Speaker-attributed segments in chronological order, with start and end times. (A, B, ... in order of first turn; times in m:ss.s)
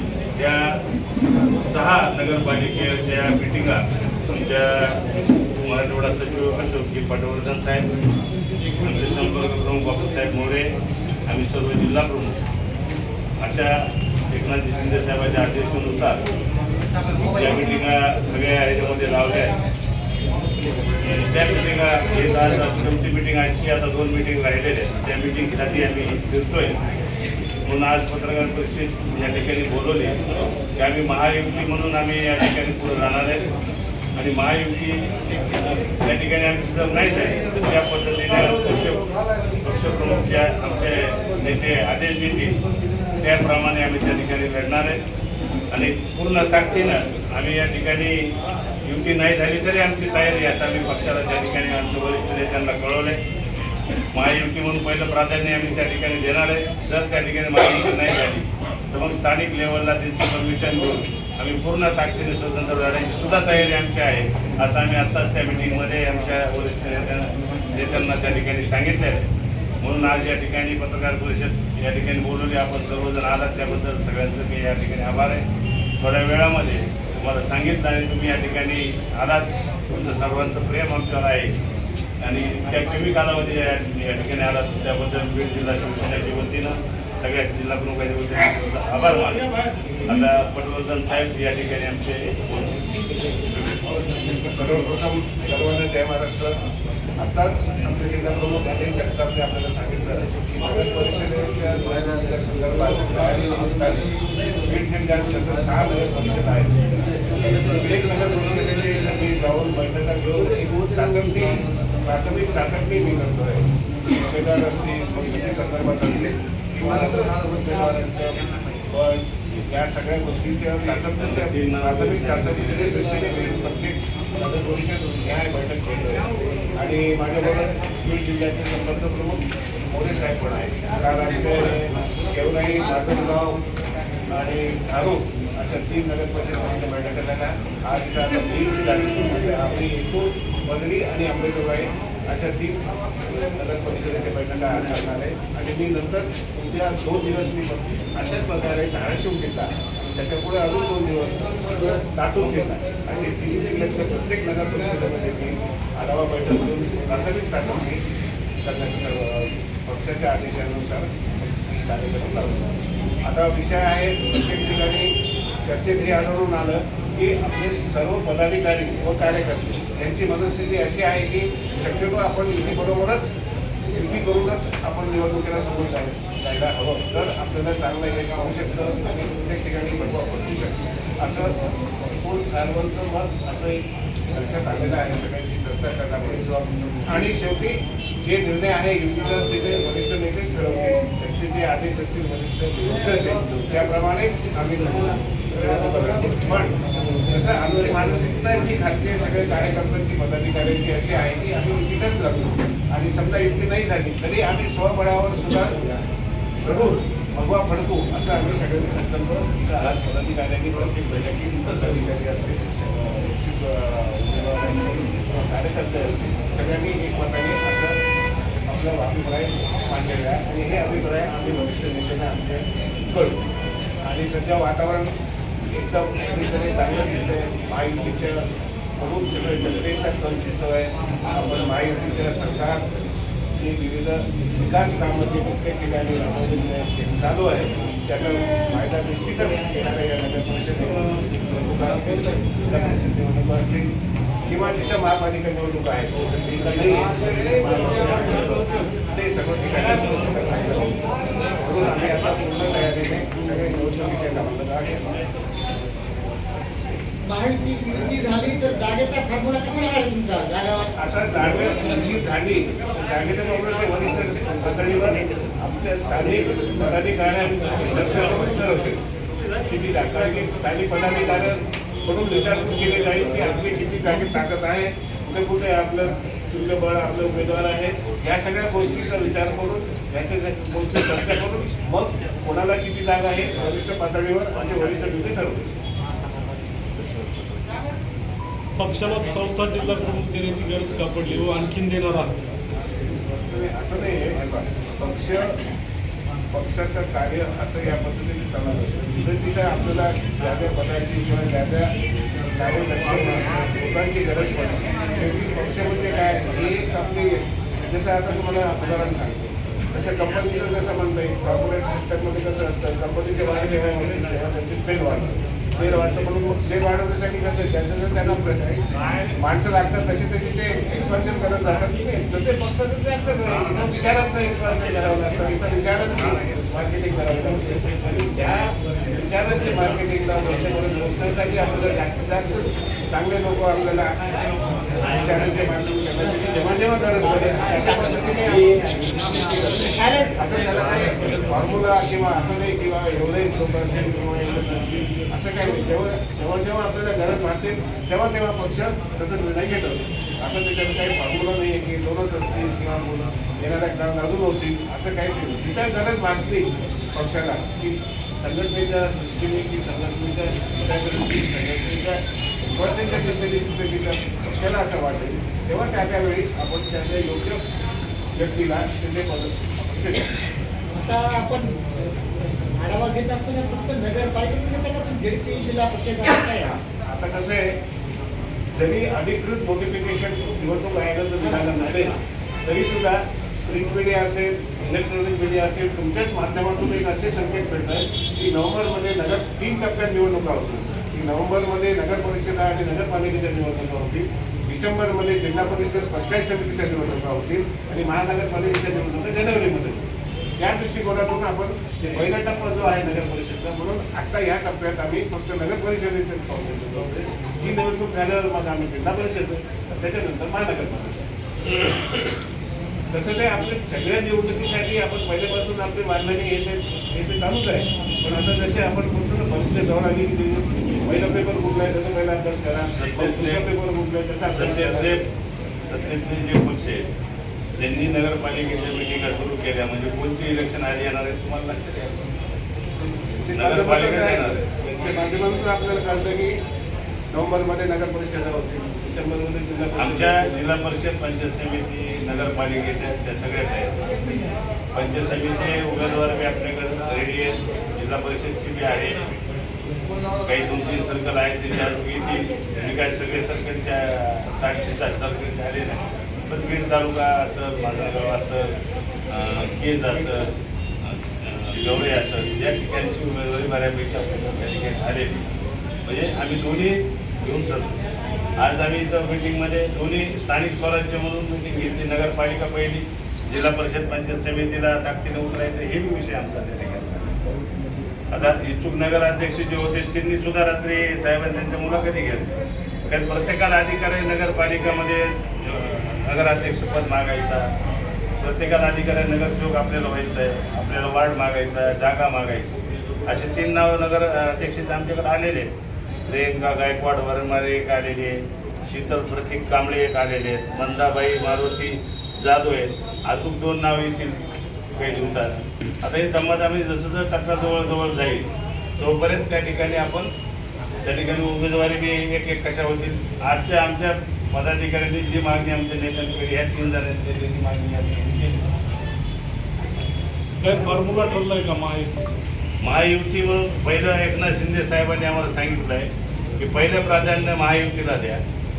0:00.4-0:00.8 A
0:01.6-0:05.0 A
0:05.6-0:07.9 A
0:08.8-0:10.7 A
0:11.3-0:12.4 A
0:13.4-0:13.7 A
0:14.3-0:16.2 A
0:17.3-0:19.5 A
0:21.0-0:26.8 A
0:27.7-0:30.2 A
0:30.8-0:33.4 A
0:34.2-0:39.0 A
0:39.6-0:42.6 A
0:43.2-0:45.0 A
0:45.7-0:48.3 A
0:48.9-0:53.2 A
0:54.1-1:09.2 A
1:09.8-1:15.4 A
1:16.0-1:21.5 A
1:22.2-1:29.5 A
1:30.1-1:32.8 A
1:34.3-1:36.6 B
1:37.2-1:44.1 B
1:44.7-2:13.6 B
2:01.1-2:03.0 A
2:14.3-2:31.6 B
2:32.1-2:38.0 B
2:38.6-2:45.1 B
2:45.6-2:53.3 B
2:54.0-3:01.6 B
3:02.2-3:06.5 B
3:07.0-3:25.9 B
3:26.6-3:38.0 B
3:38.7-3:43.4 B
3:44.0-3:45.1 B
3:45.7-3:48.4 B
3:49.0-3:53.0 B
3:53.6-4:03.9 B
4:04.5-4:11.0 B
4:11.6-4:15.2 B
4:17.2-4:20.9 C
4:21.0-4:29.0 B
4:29.7-4:45.8 B
4:48.8-4:52.3 D
4:53.5-4:55.6 B
4:56.5-5:01.9 B
5:02.6-5:18.8 B
5:19.3-5:34.1 B
5:35.1-5:39.7 B
5:39.8-5:40.3 C
5:40.4-6:02.2 B
6:02.7-6:07.6 B
6:08.4-6:10.3 B
6:10.9-6:16.8 C
6:17.1-6:17.7 B
6:18.7-6:22.1 B
6:22.6-6:40.1 B
6:40.6-6:51.2 B
6:53.1-7:05.2 B
7:02.9-7:03.6 A
7:04.5-7:05.2 A
7:05.9-7:07.1 A
7:07.8-7:12.3 A
7:13.4-7:16.6 B
7:13.6-7:14.6 A
7:17.3-7:20.5 B
7:20.0-7:24.0 A
7:24.9-7:29.2 A
7:30.4-7:38.7 A
7:39.3-7:40.5 A
7:41.1-7:45.5 A
7:46.0-7:48.0 A
7:48.6-7:57.3 A
7:58.3-8:07.7 A
8:08.4-8:15.7 A
8:16.3-8:24.4 A
8:25.0-8:28.5 A
8:29.0-8:30.3 A
8:31.0-8:38.7 A
8:40.6-8:42.4 D
8:42.8-8:48.4 A